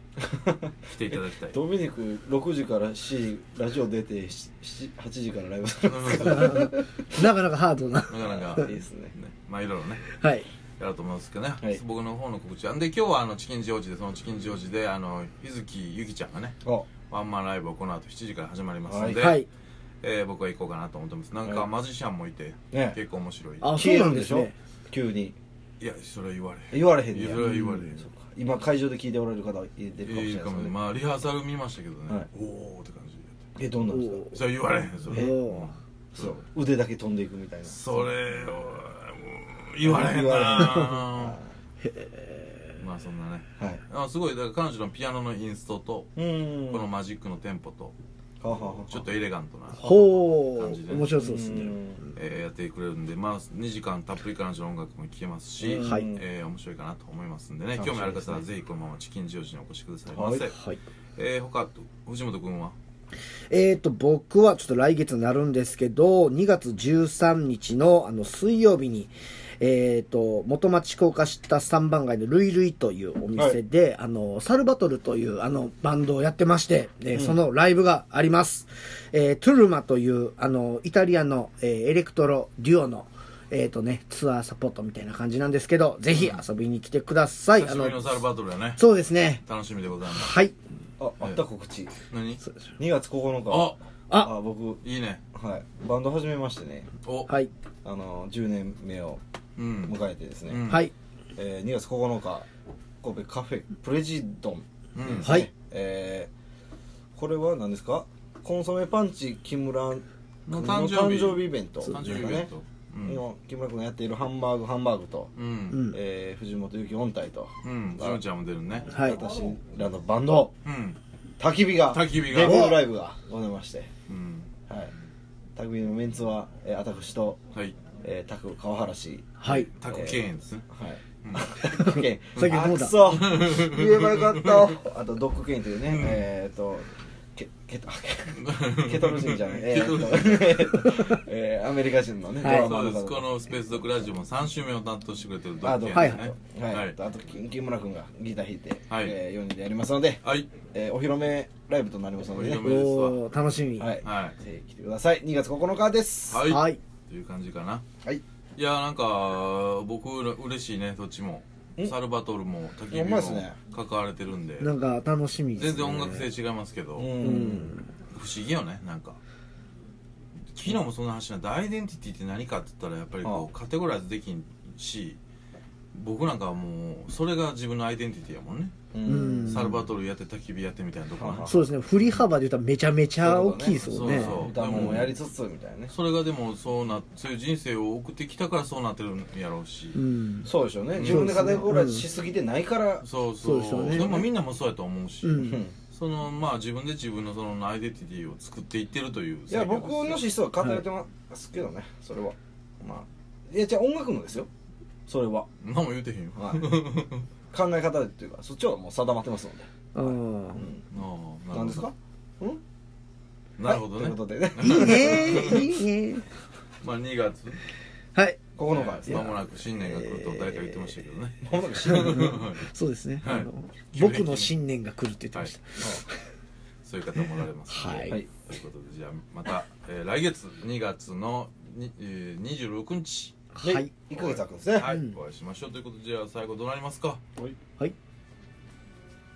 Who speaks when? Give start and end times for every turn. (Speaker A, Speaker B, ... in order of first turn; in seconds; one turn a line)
Speaker A: 0.2-6.9
Speaker B: 0.9-1.6
Speaker B: 5.9-6.6
Speaker C: 6.2-8.7
Speaker B: 8.1-10.1
Speaker A: 8.6-9.2
Speaker C: 10.1-10.5
Speaker B: 10.8-16.6
Speaker B: 17.1-19.4
Speaker A: 18.9-19.3
Speaker C: 19.2-19.5
Speaker B: 20.0-23.8
Speaker A: 22.7-23.0
Speaker C: 23.6-24.6
Speaker A: 23.7-25.4
Speaker B: 25.8-28.1
Speaker A: 26.7-30.8
Speaker C: 27.4-28.0
Speaker B: 30.1-33.4
Speaker A: 33.6-34.3
Speaker C: 33.9-34.4
Speaker B: 34.3-36.4
Speaker C: 35.1-35.8
Speaker A: 36.1-38.1
Speaker B: 37.7-41.4
Speaker A: 39.8-41.5
Speaker C: 41.9-42.8
Speaker B: 42.8-48.0
Speaker A: 46.2-46.9
Speaker A: 48.4-49.0
Speaker B: 48.5-51.2
Speaker C: 49.8-51.8
Speaker A: 51.2-52.0
Speaker B: 52.2-60.6
Speaker A: 55.6-56.2
Speaker C: 55.7-56.1
Speaker A: 57.8-58.4
Speaker A: 60.1-60.5
Speaker C: 60.5-60.8
Speaker B: 61.2-62.8
Speaker C: 63.5-88.2
Speaker A: 77.1-77.4
Speaker B: 86.1-86.4
Speaker B: 87.6-88.8
Speaker C: 88.8-89.4
Speaker B: 89.4-90.4
Speaker C: 90.1-90.5
Speaker A: 91.0-91.9
Speaker B: 92.1-92.4
Speaker A: 92.8-94.8
Speaker B: 93.5-93.8
Speaker B: 94.8-95.2
Speaker A: 95.3-96.9
Speaker B: 97.0-97.3
Speaker A: 97.8-99.2
Speaker B: 99.6-100.0
Speaker A: 99.8-100.8
Speaker B: 100.5-100.9
Speaker A: 101.3-102.5
Speaker A: 103.0-106.3
Speaker B: 105.0-105.3
Speaker C: 105.2-105.5
Speaker A: 107.2-112.5
Speaker B: 110.5-113.2
Speaker A: 113.0-115.3
Speaker B: 115.4-115.8
Speaker C: 115.7-116.0
Speaker A: 115.9-118.2
Speaker B: 117.6-118.9
Speaker C: 118.9-119.2
Speaker A: 118.9-120.5
Speaker B: 120.7-121.0
Speaker A: 121.4-123.9
Speaker B: 121.9-122.7
Speaker C: 122.4-122.8
Speaker B: 124.1-124.5
Speaker A: 125.6-127.4
Speaker A: 128.0-143.3
Speaker C: 129.4-129.7
Speaker B: 129.5-130.7
Speaker B: 131.2-131.5
Speaker C: 131.6-133.0
Speaker B: 132.4-134.8
Speaker B: 135.9-136.3
Speaker B: 138.4-140.8
Speaker C: 142.4-142.8
Speaker B: 142.5-147.0
Speaker A: 145.6-152.7
Speaker C: 145.9-146.3
Speaker B: 148.9-149.2
Speaker B: 150.2-150.5
Speaker B: 152.3-153.2
Speaker C: 152.6-154.0
Speaker A: 153.8-156.4
Speaker B: 154.0-154.4
Speaker B: 156.3-157.8
Speaker C: 156.5-156.8
Speaker B: 158.6-164.7
Speaker A: 162.9-163.6
Speaker C: 164.6-166.3
Speaker B: 165.6-167.2
Speaker A: 167.0-167.8
Speaker C: 167.2-167.9
Speaker B: 168.1-169.2
Speaker B: 170.5-175.2
Speaker B: 175.9-182.2
Speaker A: 178.9-179.8
Speaker C: 179.1-179.8
Speaker A: 181.2-181.7
Speaker C: 181.5-185.0
Speaker A: 183.2-185.9
Speaker B: 183.8-185.2
Speaker B: 185.9-190.0
Speaker C: 189.9-192.1
Speaker A: 190.4-193.1
Speaker B: 190.9-191.6
Speaker B: 193.0-200.3
Speaker C: 193.4-194.2
Speaker A: 193.9-194.3
Speaker C: 195.2-195.6
Speaker A: 195.4-195.7
Speaker A: 199.5-204.5
Speaker A: 205.1-205.5
Speaker B: 205.6-207.3
Speaker A: 206.4-206.7
Speaker A: 207.5-210.8
Speaker C: 209.9-210.7
Speaker B: 210.9-211.9
Speaker A: 211.5-212.6
Speaker B: 213.6-215.7
Speaker A: 213.7-215.7
Speaker C: 214.6-216.3
Speaker B: 216.8-217.7
Speaker C: 218.2-218.4
Speaker A: 218.6-219.3
Speaker B: 218.7-222.7
Speaker C: 219.1-220.9
Speaker A: 221.4-222.4
Speaker C: 221.9-226.3
Speaker B: 223.2-224.5
Speaker B: 226.8-233.4
Speaker C: 227.7-228.2
Speaker C: 233.6-233.9
Speaker A: 233.6-234.9
Speaker B: 234.1-237.2
Speaker C: 234.8-235.1